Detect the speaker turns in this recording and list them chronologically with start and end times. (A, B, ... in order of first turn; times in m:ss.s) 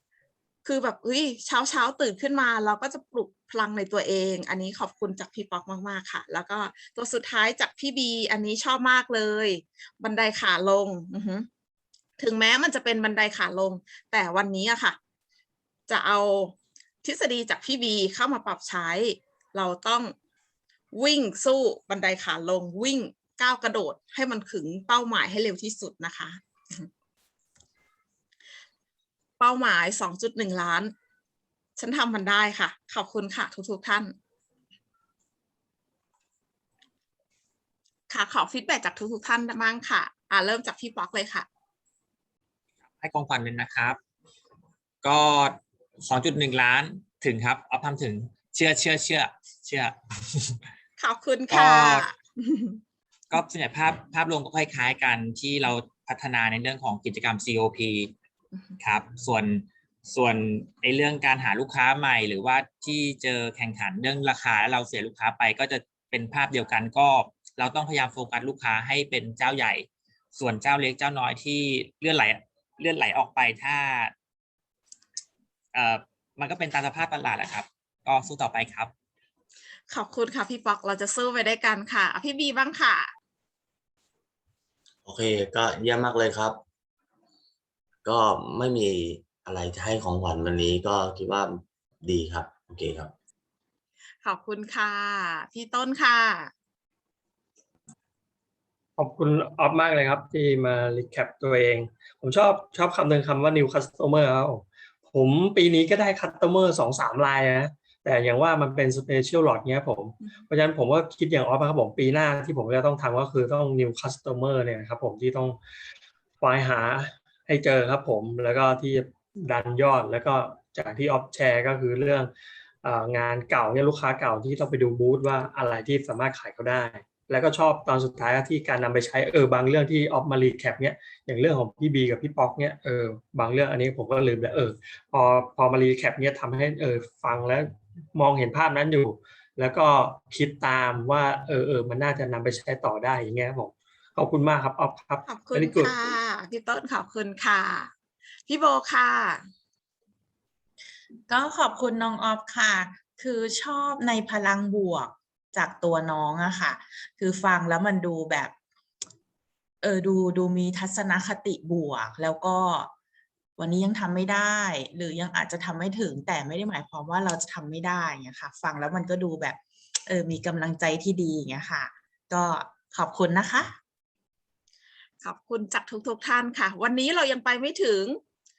0:00.6-0:11.5 A
0:12.2-0:15.0 A
0:15.9-0:20.1 A
0:20.9-0:26.9 A
0:29.4-0:30.9 A
0:31.8-0:34.1 A
0:38.1-0:41.5 A
0:43.0-0:44.0 B
0:45.0-0:50.6 B
0:51.0-0:52.8 A
0:51.5-0:52.0 B
0:53.3-0:58.1 B
0:58.8-1:14.1 B
1:15.7-1:18.9 B
1:19.9-1:23.1 A
1:25.0-1:26.6 C
1:28.0-1:33.1 C
1:34.2-1:36.5 A
1:39.0-1:55.6 D
1:56.4-2:02.3 D
2:02.8-2:25.9 D
2:25.3-2:27.9 A
2:28.5-2:29.4 A
2:31.3-2:38.5 E
2:39.8-2:42.9 E
2:43.6-2:53.8 E
2:55.2-2:58.2 A